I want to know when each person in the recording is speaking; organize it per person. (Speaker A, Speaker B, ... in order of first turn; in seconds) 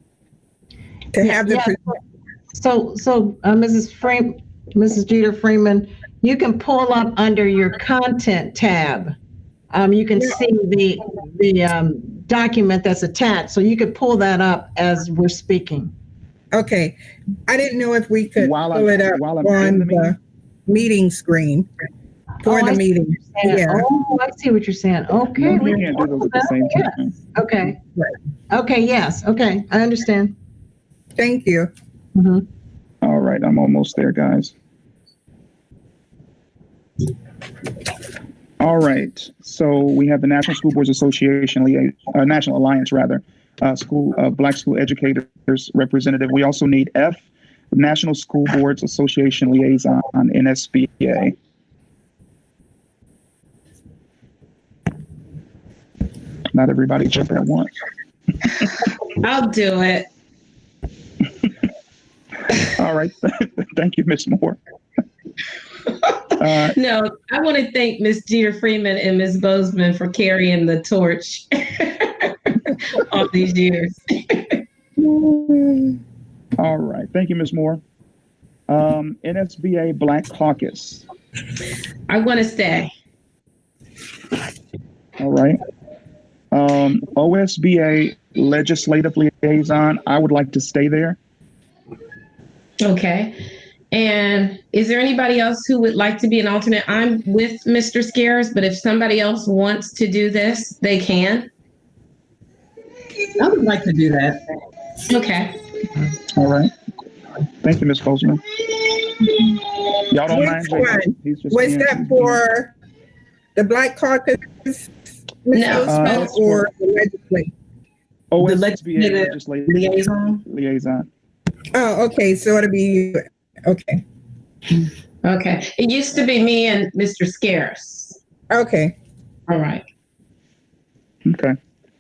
Speaker A: 1.1-2.0, 16.5-17.0, 17.5-21.7, 22.4-23.9, 31.2-31.7, 75.0-76.0, 110.3-112.7, 113.6-114.9, 115.5-117.5, 121.7-124.0, 128.5-129.0
Speaker B: 1.2-1.8, 2.5-9.2, 9.7-15.9, 22.4-27.8, 28.5-30.3, 32.2-32.4
Speaker C: 18.4-20.2, 25.2-27.2, 33.0-34.5, 38.6-51.4, 56.5-57.7, 62.5-64.6, 66.4-66.8, 76.6-77.8, 78.7-81.0, 85.2-85.6, 86.5-91.2, 106.4-106.7, 107.6-108.4, 110.1-112.4, 115.8-116.7, 118.3-121.1, 131.3-131.6
Speaker D: 59.2-60.1, 65.9-74.6, 82.1-82.9, 92.8-93.4, 93.9-101.5, 105.1-105.6, 115.5-116.3, 125.2-128.2, 129.5-129.8
Speaker E: 103.4-104.4, 118.4-119.2, 119.9-120.3